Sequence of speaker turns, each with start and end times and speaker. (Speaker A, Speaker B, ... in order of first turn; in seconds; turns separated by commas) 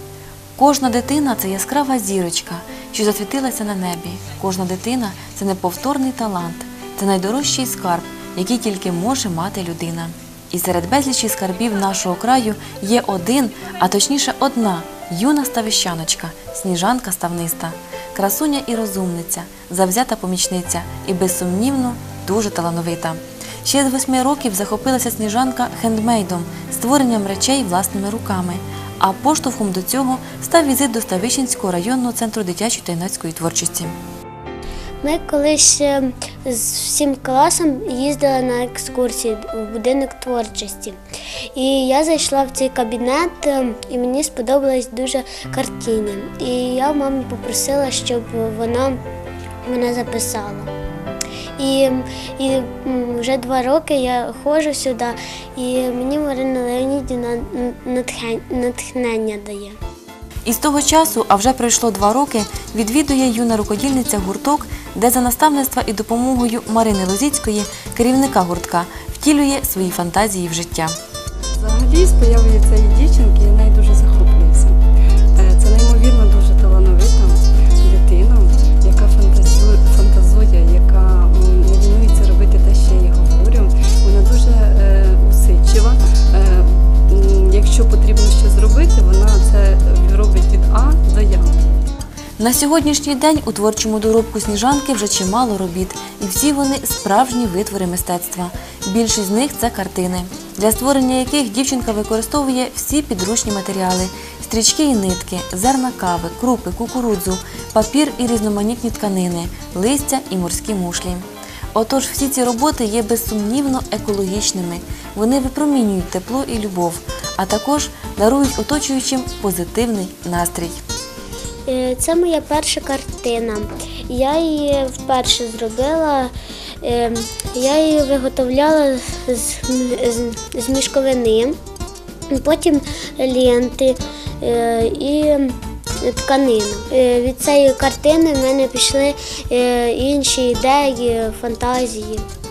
Speaker A: 0.6-34.0, Speaker B: 35.0-41.0, Speaker B: 41.5-49.0, Speaker B: 49.6-50.7, Speaker B: 51.6-59.8, Speaker A: 60.5-71.0, Speaker C: 71.6-74.8, Speaker C: 75.4-91.5, Speaker A: 92.4-120.8, Speaker B: 121.7-131.6, Speaker B: 132.3-142.2